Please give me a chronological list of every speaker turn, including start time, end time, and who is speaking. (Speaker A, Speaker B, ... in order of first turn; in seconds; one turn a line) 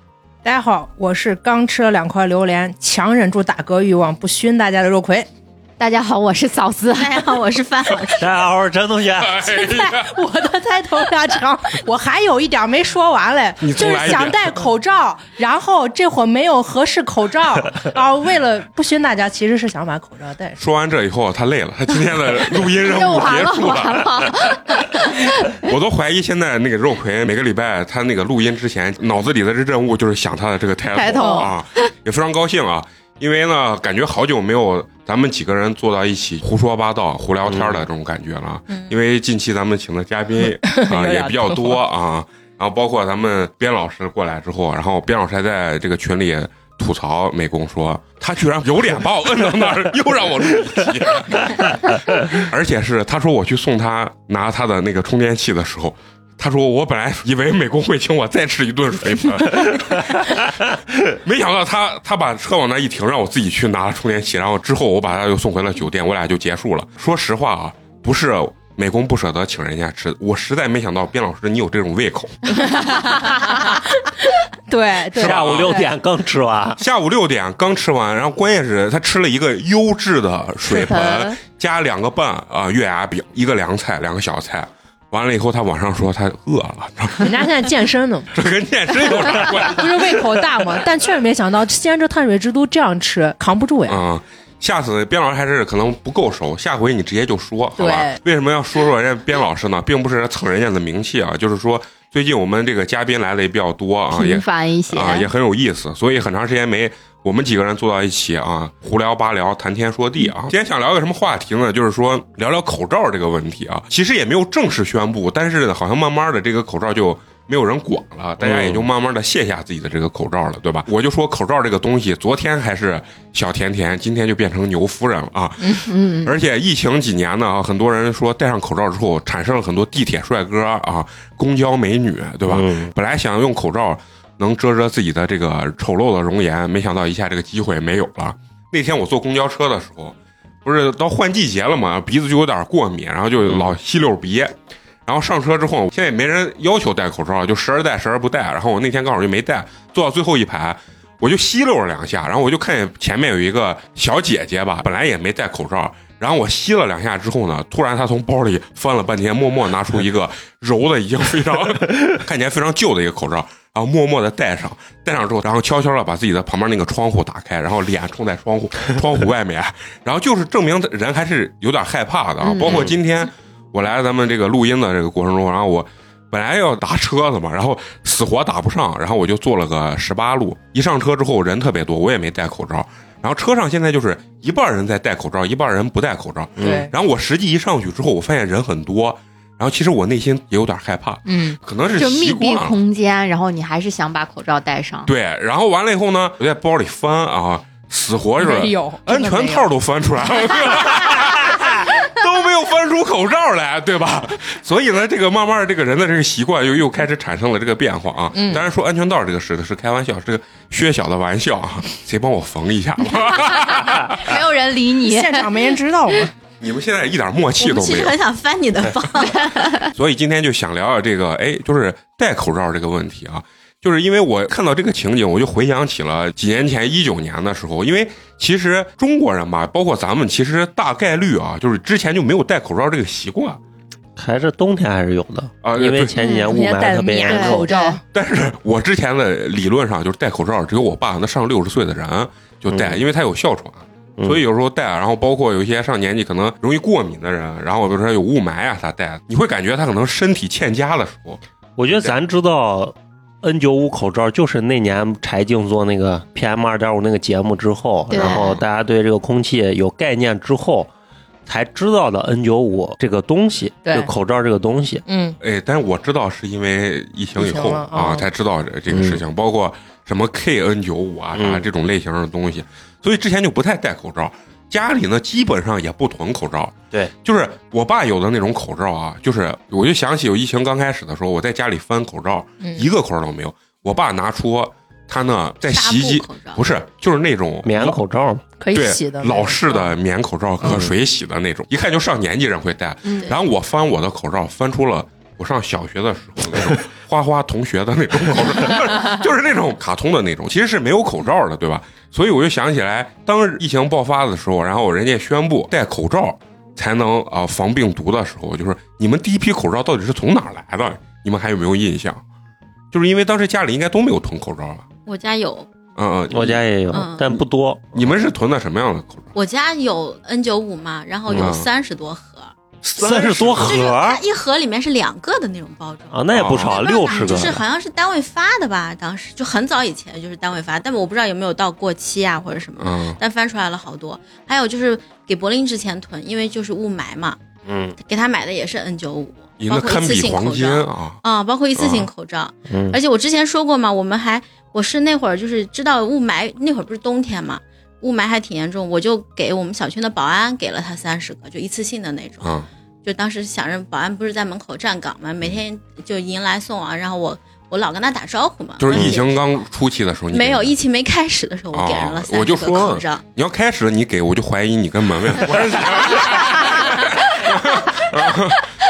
Speaker A: 0.4-5.3
Speaker B: 5.8-7.3
Speaker C: 7.0-8.3
Speaker D: 8.2-9.4
Speaker E: 9.2-10.1
Speaker A: 9.4-20.6
Speaker E: 13.6-14.5
Speaker E: 20.6-24.6
Speaker B: 22.7-25.5
Speaker E: 25.2-60.3
Speaker B: 30.9-31.6
Speaker A: 31.2-31.5
Speaker D: 37.5-37.8
Speaker A: 40.6-41.8
Speaker E: 61.1-72.8
Speaker A: 72.7-73.8
Speaker A: 74.7-75.9
Speaker E: 75.1-75.8
Speaker D: 75.2-76.8
Speaker E: 76.8-87.3
Speaker B: 80.8-81.4
Speaker A: 87.2-88.3
Speaker E: 88.3-90.1
Speaker A: 89.7-94.0
Speaker E: 93.9-192.8
Speaker A: 97.8-98.2
Speaker B: 104.1-105.3
Speaker D: 118.4-118.8
Speaker B: 125.7-126.3
Speaker D: 132.5-132.9
Speaker B: 172.4-172.9
Speaker D: 172.7-172.9
Speaker D: 186.6-186.9
Speaker A: 186.6-186.9
Speaker A: 191.2-191.6
Speaker B: 191.9-195.1
Speaker E: 195.1-214.3
Speaker A: 198.4-199.7
Speaker A: 208.3-208.6
Speaker B: 214.1-215.7
Speaker A: 215.1-216.3
Speaker E: 216.6-218.2
Speaker C: 217.6-219.8
Speaker B: 219.3-219.8
Speaker E: 219.9-233.6
Speaker D: 234.2-237.7
Speaker E: 235.6-236.1
Speaker B: 236.2-236.5
Speaker A: 236.4-238.0
Speaker B: 237.3-238.0
Speaker E: 238.1-251.4
Speaker D: 242.7-243.0
Speaker D: 251.8-260.9
Speaker B: 258.1-258.5
Speaker E: 258.2-258.6
Speaker D: 261.4-265.0
Speaker A: 263.8-264.1
Speaker A: 265.1-265.4
Speaker E: 265.4-288.0
Speaker A: 267.4-268.2
Speaker D: 268.9-269.2
Speaker D: 271.3-271.6
Speaker A: 282.6-282.9
Speaker C: 285.7-286.6
Speaker D: 287.6-288.4
Speaker A: 288.6-289.9
Speaker E: 288.7-312.2
Speaker D: 290.6-290.9
Speaker B: 293.1-293.3
Speaker E: 312.9-314.9
Speaker C: 315.1-315.7
Speaker E: 315.9-316.6
Speaker D: 316.3-318.1
Speaker C: 316.9-317.3
Speaker E: 317.9-319.3
Speaker C: 319.3-337.4
Speaker E: 321.3-321.6
Speaker D: 322.9-324.2
Speaker E: 323.0-323.8
Speaker D: 326.1-327.6
Speaker E: 326.3-326.8
Speaker E: 332.8-333.2
Speaker D: 337.6-337.9
Speaker C: 338.0-359.3
Speaker E: 339.6-341.2
Speaker E: 341.8-342.1
Speaker D: 342.7-343.0
Speaker E: 352.4-352.7
Speaker E: 358.8-360.7
Speaker D: 358.9-359.2
Speaker C: 360.3-363.2
Speaker E: 361.7-368.7
Speaker C: 366.2-367.1